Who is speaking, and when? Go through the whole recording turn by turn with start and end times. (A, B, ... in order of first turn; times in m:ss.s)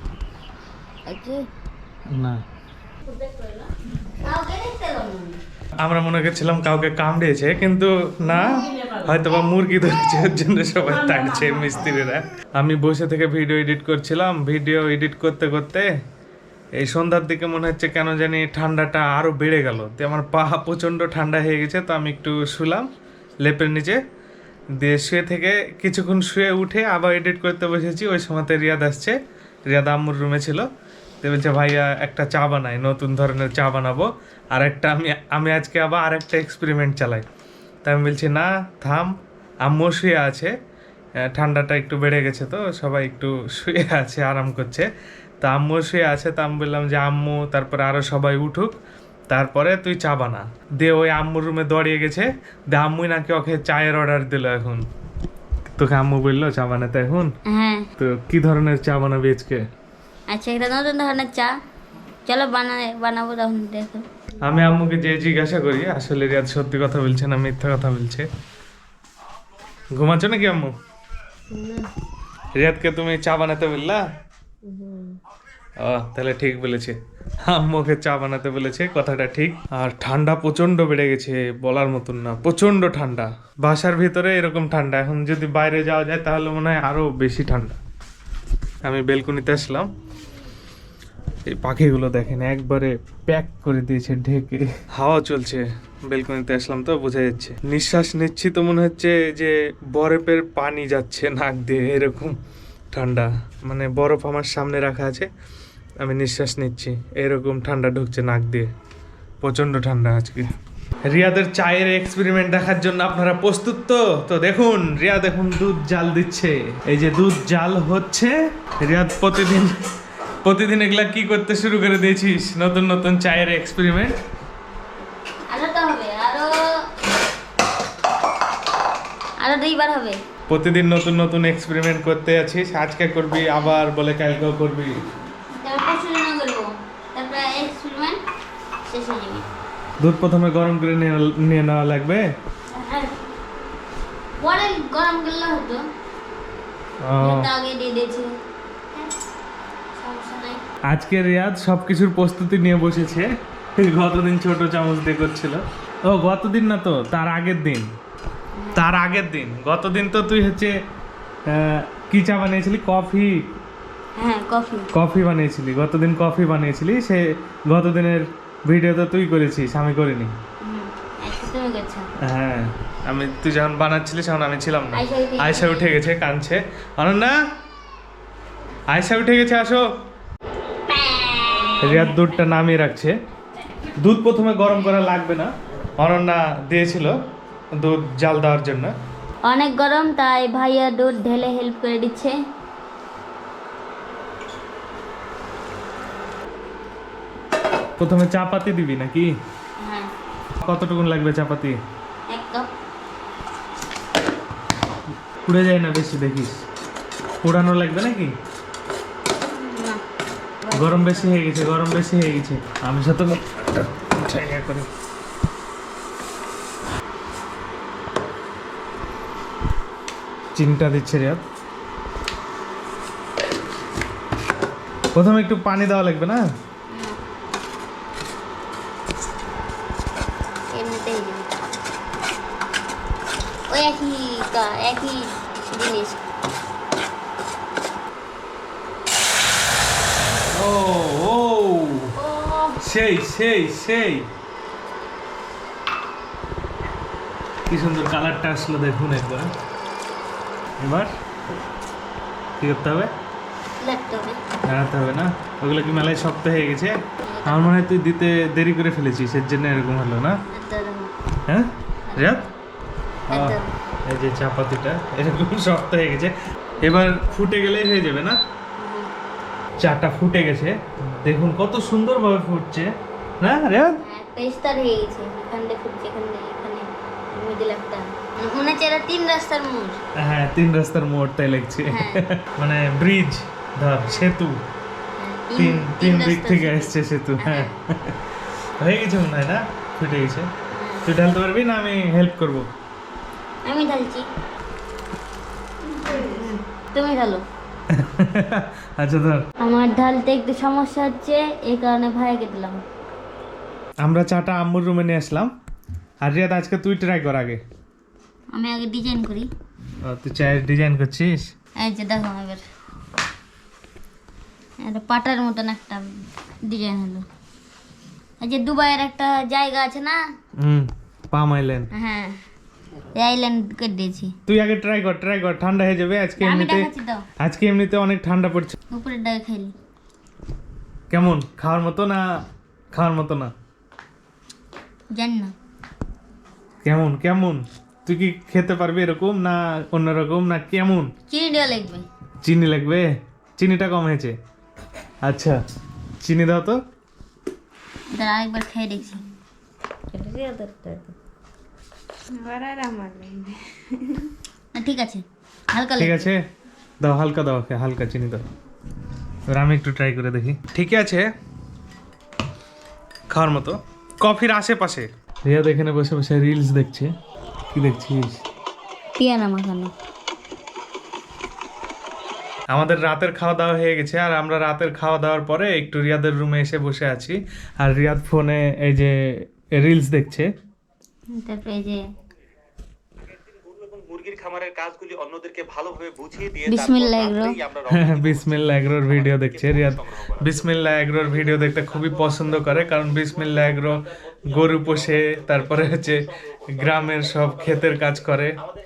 0:01.1-0:01.5 A
0:02.1-0:02.4 B
0:03.1-0:03.7 A
0:04.2-0:05.4 A
0:05.8-0:15.9 B
0:16.8-0:22.9 B
0:23.4-0:24.0 B
0:24.7-0:29.2 B
0:29.7-0:30.7 B
0:31.2-0:37.2 B
0:37.8-0:39.1 B
0:39.6-0:40.5 B
0:41.3-0:44.9 B
0:45.4-0:48.7 B
0:49.3-0:54.8 B
0:55.7-0:57.3 B
0:57.5-0:57.9 A
0:58.0-0:59.6 B
1:00.3-1:01.5 A
1:02.2-1:04.0 A
1:04.4-1:08.3 B
1:09.9-1:10.7 B
1:11.5-1:11.8 A
1:12.6-1:14.0 B
1:14.7-1:15.2 A
1:15.8-1:27.8 B
1:28.8-1:29.9 B
1:31.5-1:42.4 B
1:42.9-1:45.3 B
1:46.0-1:48.7 B
1:49.4-1:50.5 B
1:51.0-1:59.8 B
2:00.4-2:04.2 B
2:05.5-2:06.6 A
2:09.4-2:10.2 A
2:10.5-2:15.0 B
2:15.6-2:18.2 A
2:18.8-2:19.4 A
2:20.0-2:22.2 B
2:22.7-2:23.1 A
2:24.4-2:25.8 A
2:27.0-2:27.5 B
2:27.2-2:28.3 A
2:30.0-2:30.6 A
2:30.9-2:37.9 B
2:38.5-2:38.8 A
2:38.7-2:40.7 B
2:41.5-2:43.4 B
2:44.2-2:44.9 A
2:44.9-2:50.3 B
2:50.6-2:52.1 A
2:52.2-2:57.4 B
2:54.9-2:55.9 A
2:58.9-2:59.8 B
3:00.9-3:02.2 A
3:01.8-3:03.1 B
3:04.0-3:07.2 B
3:07.8-3:08.9 B
3:09.4-3:12.3 A
3:18.0-3:19.3 B
3:19.8-3:20.1 A
3:20.6-3:21.8 B
3:22.3-3:22.7 A
3:25.4-3:26.6 B
3:27.4-3:28.3 B
3:29.4-3:30.0 A
3:30.6-3:31.4 A
3:30.7-3:34.9 B
3:40.5-3:41.4 B
3:45.1-3:46.4 B
3:46.9-3:47.2 A
3:50.7-3:51.5 A
3:53.7-3:56.2 A
4:00.5-4:02.1 B
4:02.2-4:02.8 A
4:02.8-4:04.3 B
4:07.7-4:09.5 B
4:10.8-4:11.1 B
4:12.6-4:13.1 B
4:13.8-4:14.4 A
4:14.6-4:20.4 B
4:17.2-4:17.8 A
4:20.5-4:21.1 A
4:21.4-4:22.4 B
4:22.1-4:22.4 A
4:23.3-4:23.7 A
4:23.3-4:28.4 B
4:28.8-4:29.1 A
4:29.8-4:34.0 B
4:34.0-4:40.0 A
4:40.2-4:44.6 B
4:41.9-4:42.2 A
4:45.2-4:47.8 A
4:45.6-4:48.2 B
4:48.8-4:50.5 B
4:50.7-4:51.0 A
4:51.0-4:52.7 B
4:53.6-4:54.3 A
4:55.9-4:57.4 A
4:57.9-4:59.4 B
4:59.6-5:02.8 A
5:04.0-5:05.5 B
5:06.2-5:07.6 B
5:08.5-5:09.5 A
5:10.0-5:11.5 B
5:11.8-5:12.6 A
5:14.8-5:17.2 A
5:18.4-5:20.2 A
5:20.6-5:21.9 B
5:22.0-5:22.4 A
5:23.1-5:24.3 A
5:24.5-5:26.9 B
5:26.4-5:27.2 A
5:27.4-5:28.8 B
5:28.9-5:29.7 A
5:31.1-5:32.2 B
5:32.9-5:33.5 B
5:35.1-5:35.5 A
5:36.8-5:41.1 B
5:41.3-5:42.1 A
5:42.4-5:44.4 B
5:45.2-5:45.6 B
5:46.2-5:46.8 B
5:48.1-5:49.2 A
5:50.1-5:51.1 A
5:52.3-5:56.3 A
5:56.0-5:56.4 B
5:57.0-5:58.4 B
5:59.5-6:01.3 B
6:03.3-6:07.1 B
6:07.7-6:08.4 B
6:09.2-6:09.9 A
6:12.7-6:19.2 B
6:19.8-6:20.5 B
6:21.3-6:22.0 A
6:23.8-6:26.6 C
6:26.6-6:27.6 A
6:27.9-6:38.6 B